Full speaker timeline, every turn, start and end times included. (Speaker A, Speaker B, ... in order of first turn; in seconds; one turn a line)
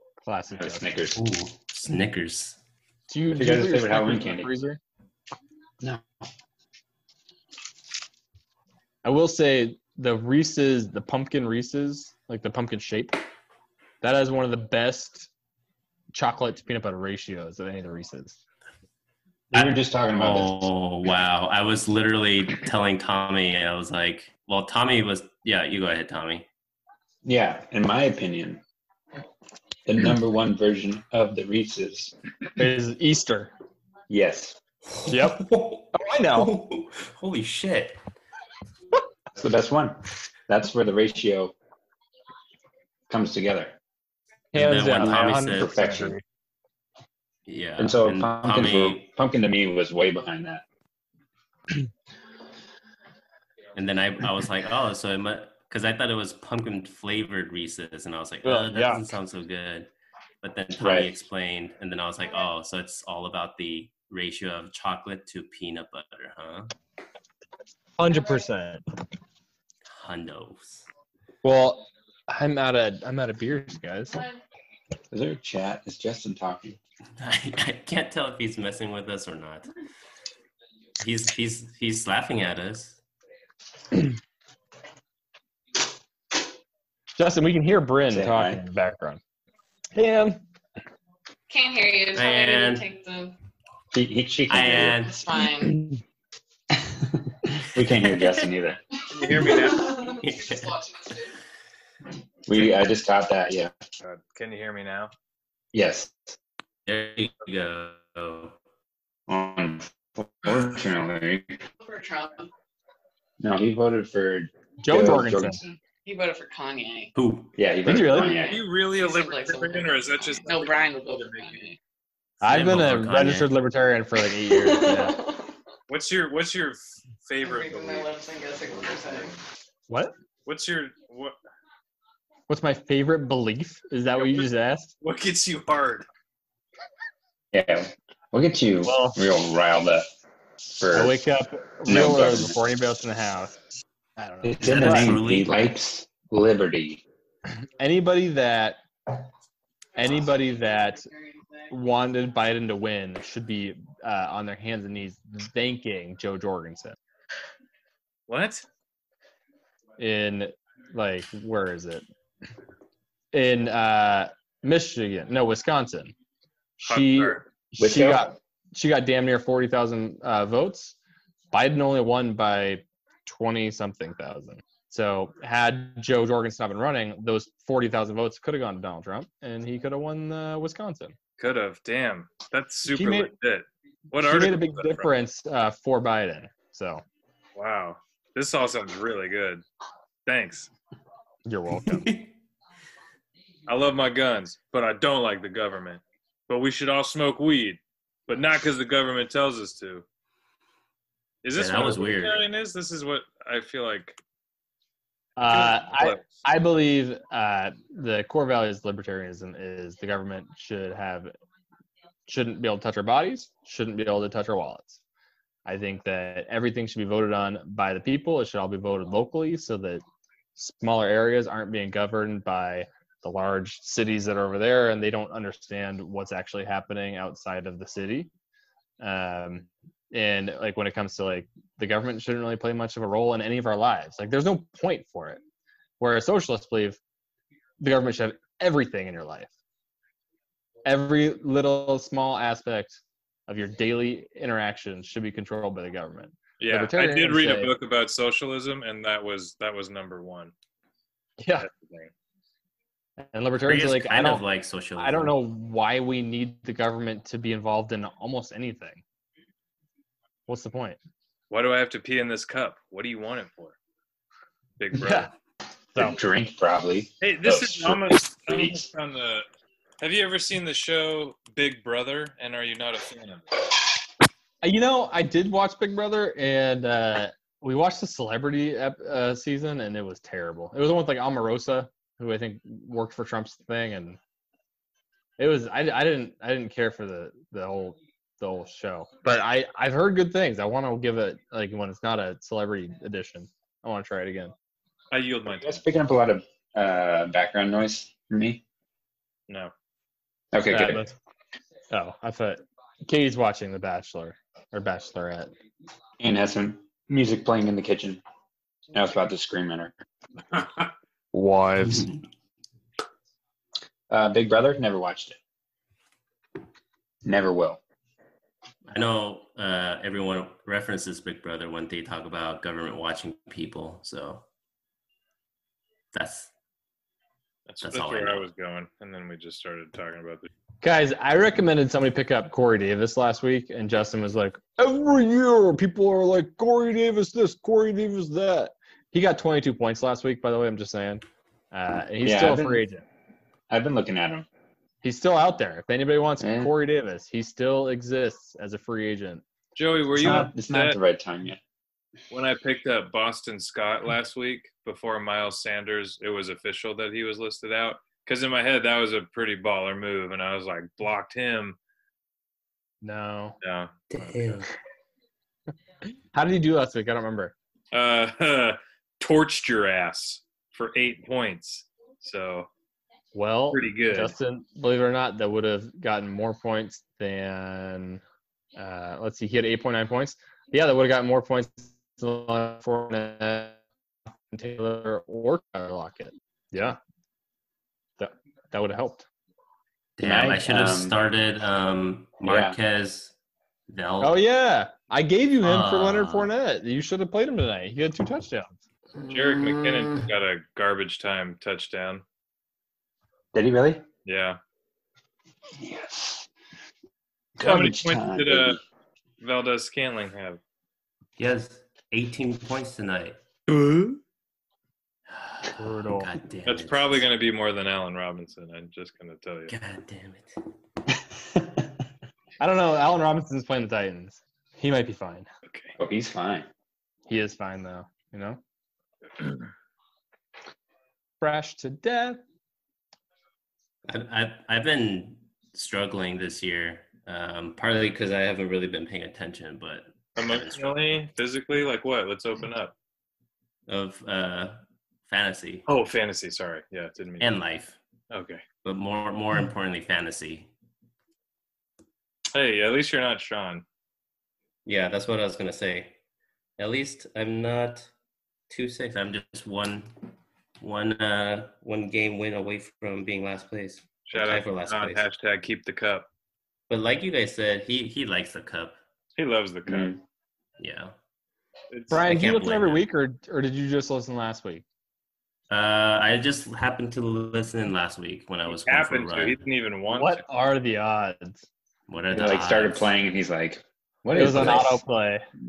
Speaker A: 0.2-0.9
Speaker B: 0.5-1.2
Speaker C: 1.1-2.6
Speaker A: 3.1-4.8
Speaker B: 3.3-4.5
Speaker A: 9.0-13.2
Speaker A: 14.0-15.3
Speaker A: 16.1-18.4
Speaker B: 19.5-20.7
Speaker C: 19.5-26.5
Speaker B: 27.2-28.6
Speaker B: 29.9-32.1
Speaker A: 32.6-33.5
Speaker B: 34.1-34.6
Speaker C: 35.0-38.0
Speaker A: 35.1-36.5
Speaker B: 39.4-41.5
Speaker B: 43.1-43.8
Speaker A: 44.5-46.2
Speaker C: 44.5-45.7
Speaker B: 45.0-46.1
Speaker C: 47.5-49.0
Speaker B: 47.8-50.6
Speaker C: 53.7-59.9
Speaker A: 58.4-59.1
Speaker C: 60.4-66.7
Speaker B: 60.8-61.1
Speaker A: 68.0-68.8
Speaker C: 69.8-70.8
Speaker A: 71.4-74.2
Speaker B: 75.1-76.8
Speaker C: 77.2-79.7
Speaker C: 81.0-83.0
Speaker A: 87.2-89.2
Speaker B: 88.1-88.6
Speaker A: 89.9-90.4
Speaker D: 91.5-93.3
Speaker C: 92.1-92.8
Speaker B: 93.9-95.4
Speaker C: 94.5-95.2
Speaker D: 95.1-95.9
Speaker B: 96.7-98.8
Speaker E: 99.1-100.0
Speaker D: 99.2-101.2
Speaker C: 100.2-100.8
Speaker B: 102.5-103.7
Speaker E: 104.0-105.1
Speaker B: 105.7-106.3
Speaker C: 106.8-108.5
Speaker B: 109.3-111.6
Speaker D: 111.8-112.5
Speaker B: 113.4-115.8
Speaker A: 114.8-115.6
Speaker D: 116.0-117.1
Speaker C: 117.1-117.6
Speaker B: 117.5-118.6
Speaker A: 117.8-118.4
Speaker E: 118.3-120.7
Speaker D: 118.3-121.8
Speaker A: 122.4-125.2
Speaker C: 122.4-123.5
Speaker D: 124.5-125.5
Speaker E: 125.9-128.1
Speaker D: 127.4-129.3
Speaker E: 128.8-129.3
Speaker E: 130.4-131.3
Speaker A: 132.5-134.9
Speaker E: 134.2-134.4
Speaker E: 135.0-136.1
Speaker B: 137.5-140.1
Speaker A: 138.8-139.2
Speaker B: 140.8-141.2
Speaker A: 140.9-143.5
Speaker B: 141.8-142.5
Speaker A: 144.2-145.2
Speaker B: 144.4-147.0
Speaker C: 144.6-145.7
Speaker A: 147.8-148.8
Speaker A: 149.9-151.1
Speaker D: 150.9-151.7
Speaker A: 151.7-157.0
Speaker E: 158.3-158.6
Speaker A: 160.0-162.0
Speaker A: 163.3-166.1
Speaker A: 166.8-170.9
Speaker E: 166.8-167.4
Speaker B: 167.8-168.3
Speaker A: 171.5-181.1
Speaker E: 181.4-185.1
Speaker A: 182.9-183.3
Speaker A: 184.1-187.0
Speaker E: 187.5-189.6
Speaker E: 190.2-190.7
Speaker A: 191.4-192.1
Speaker E: 193.7-200.0
Speaker E: 201.4-204.2
Speaker C: 201.5-202.4
Speaker A: 205.4-211.3
Speaker E: 205.5-206.4
Speaker A: 212.3-215.0
Speaker A: 215.7-220.0
Speaker A: 220.6-228.3
Speaker A: 229.0-235.4
Speaker A: 236.0-237.0
Speaker A: 237.8-239.5
Speaker A: 240.8-247.7
Speaker E: 246.6-250.5
Speaker A: 251.4-251.7
Speaker E: 251.6-252.1
Speaker A: 253.2-254.4
Speaker C: 253.7-255.4
Speaker A: 255.0-259.0
Speaker A: 260.5-261.0
Speaker E: 261.5-263.8
Speaker E: 264.8-265.3
Speaker A: 264.9-265.3
Speaker B: 265.9-268.9
Speaker E: 267.2-269.4
Speaker E: 270.0-273.4
Speaker A: 274.6-284.2
Speaker A: 285.4-294.5
Speaker E: 295.1-295.8
Speaker B: 295.5-298.6
Speaker B: 300.5-301.0
Speaker A: 300.7-301.1
Speaker A: 301.9-305.5
Speaker B: 306.2-308.2
Speaker B: 308.9-309.9
Speaker A: 311.3-312.1
Speaker B: 314.1-315.4
Speaker B: 317.2-317.8
Speaker C: 318.9-324.4
Speaker C: 326.1-326.5
Speaker E: 327.7-330.5
Speaker C: 327.8-328.4
Speaker A: 330.8-343.0
Speaker B: 342.2-342.8
Speaker B: 343.7-344.5
Speaker A: 345.0-349.4
Speaker B: 346.4-346.7
Speaker E: 349.8-351.0
Speaker B: 350.1-351.6
Speaker E: 352.3-361.8
Speaker A: 363.0-363.6
Speaker E: 363.6-364.6
Speaker C: 364.1-364.7
Speaker A: 366.3-367.5
Speaker E: 367.9-372.7
Speaker A: 373.3-378.2
Speaker E: 373.7-374.3
Speaker A: 378.8-383.8
Speaker A: 384.5-387.0
Speaker A: 388.2-389.2
Speaker C: 390.2-393.3
Speaker B: 390.2-391.2
Speaker B: 392.4-392.8
Speaker C: 393.9-394.4
Speaker A: 394.2-398.8
Speaker C: 395.6-396.5
Speaker E: 399.3-402.2
Speaker B: 403.5-404.0
Speaker E: 404.2-404.6
Speaker B: 405.8-406.5
Speaker B: 407.6-408.8
Speaker E: 407.6-408.8
Speaker E: 409.4-410.6
Speaker C: 411.4-413.5
Speaker C: 415.3-417.2
Speaker A: 415.7-416.3
Speaker E: 416.6-419.7
Speaker C: 419.7-420.6
Speaker B: 421.5-421.8
Speaker A: 422.6-425.5
Speaker E: 425.7-425.9
Speaker B: 426.0-426.7
Speaker A: 427.3-428.6
Speaker A: 431.4-432.4
Speaker C: 434.1-440.9
Speaker E: 440.4-442.9
Speaker C: 443.9-445.8
Speaker E: 445.9-447.5
Speaker C: 447.4-448.0
Speaker E: 448.3-448.6
Speaker C: 448.8-450.7
Speaker E: 452.5-453.8
Speaker C: 454.8-456.1
Speaker C: 456.8-458.1
Speaker C: 458.7-460.1
Speaker C: 460.8-465.2
Speaker E: 464.3-466.3
Speaker C: 466.9-469.0
Speaker E: 469.4-470.2
Speaker B: 469.9-470.2
Speaker C: 470.8-471.1
Speaker E: 471.9-472.2
Speaker A: 472.1-474.8
Speaker C: 472.2-473.0
Speaker C: 475.7-479.6
Speaker E: 478.7-480.4
Speaker A: 480.1-481.6
Speaker C: 482.1-483.1
Speaker B: 482.3-485.0
Speaker A: 484.3-485.4